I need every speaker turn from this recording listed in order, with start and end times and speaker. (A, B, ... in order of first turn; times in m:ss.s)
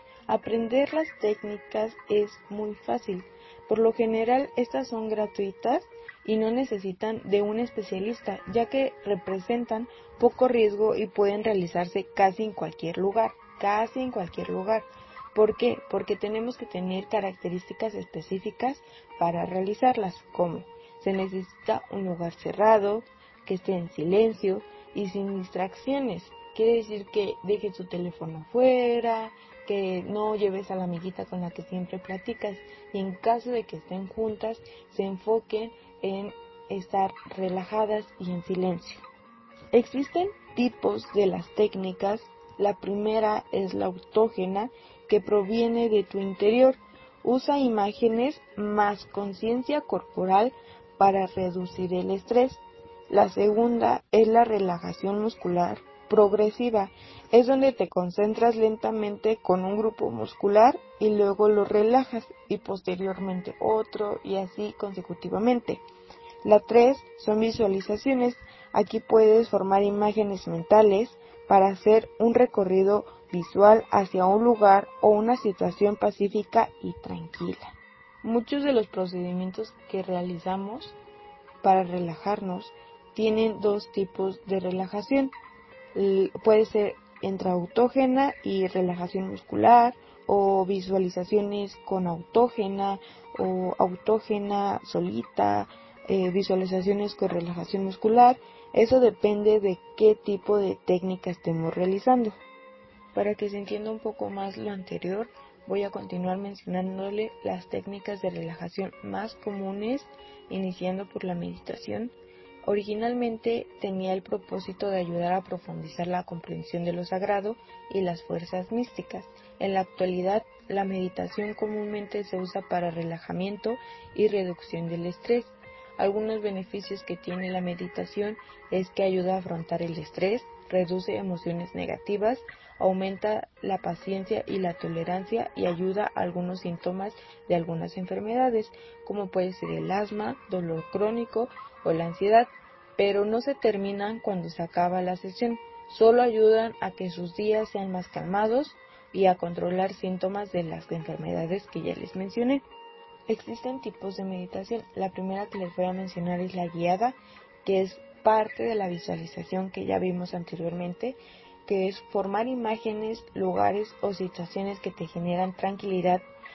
0:00.3-0:39.0 A
0:39.7-1:05.8 A
1:06.4-1:21.0 A
1:21.6-1:25.3 A
1:25.9-1:42.4 A
1:43.1-1:52.1 A
1:52.7-2:32.6 A
2:33.3-2:46.2 A